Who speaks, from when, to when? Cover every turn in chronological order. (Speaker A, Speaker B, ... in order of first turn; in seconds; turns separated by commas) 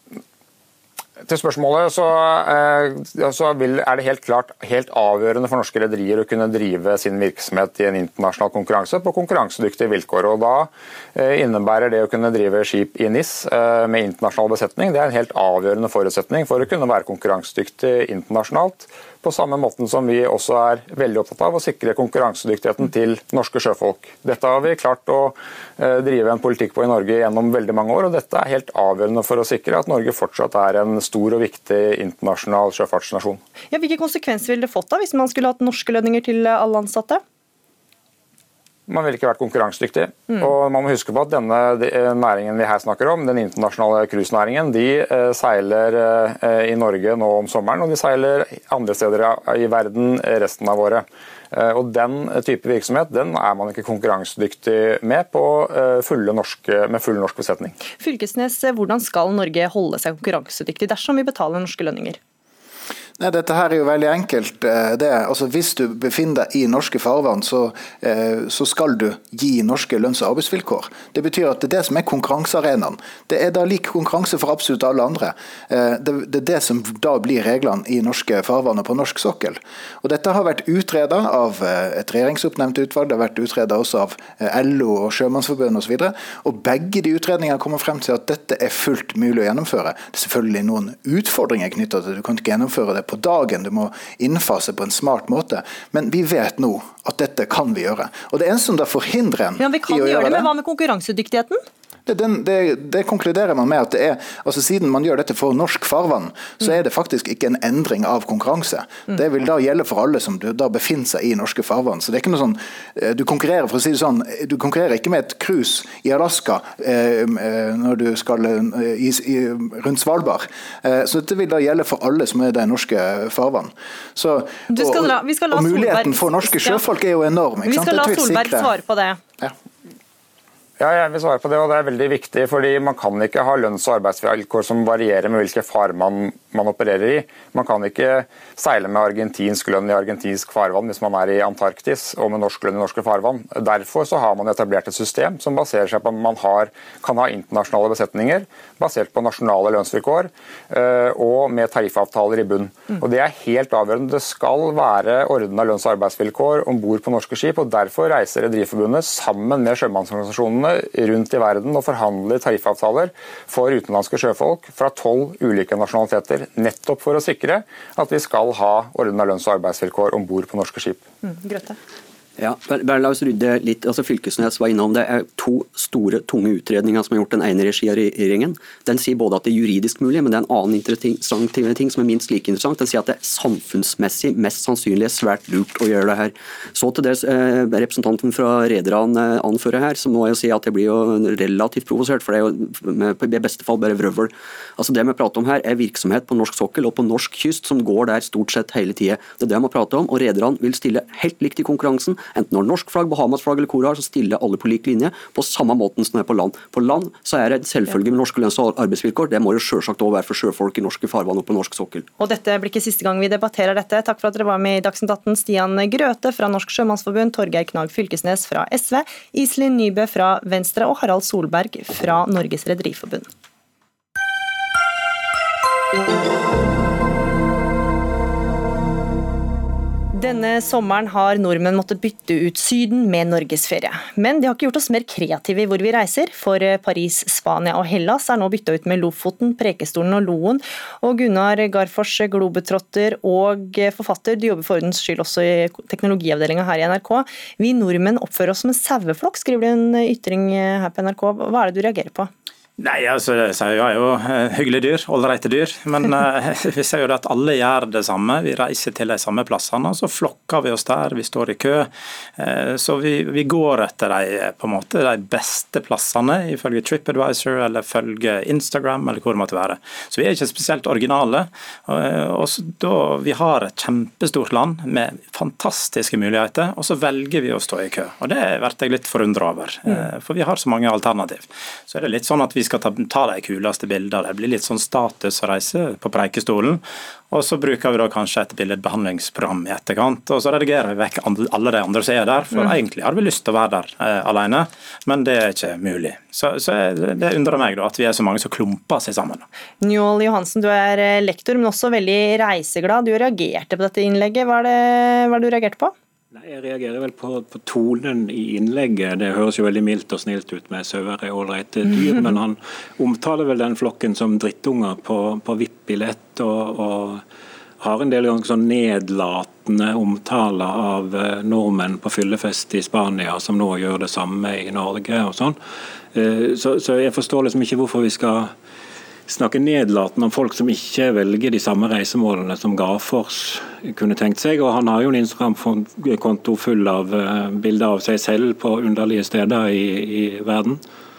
Speaker A: 1.2-33.4, Speaker B: 33.7-37.2, Speaker A: 38.9-57.8, Speaker B: 58.0-62.2, Speaker C: 63.2-100.5, Speaker B: 99.6-101.6, Speaker C: 102.1-128.8, Speaker B: 124.7-126.8, Speaker B: 127.7-129.2, Speaker A: 130.8-171.0, Speaker B: 171.2-171.8, Speaker D: 172.4-212.1, Speaker B: 212.2-223.3, Speaker B: 230.1-252.3, Speaker E: 252.8-299.4, Speaker B: 299.8-305.9, Speaker F: 306.3-317.2, Speaker F: 317.8-325.6, Speaker F: 326.1-328.5, Speaker F: 329.3-340.8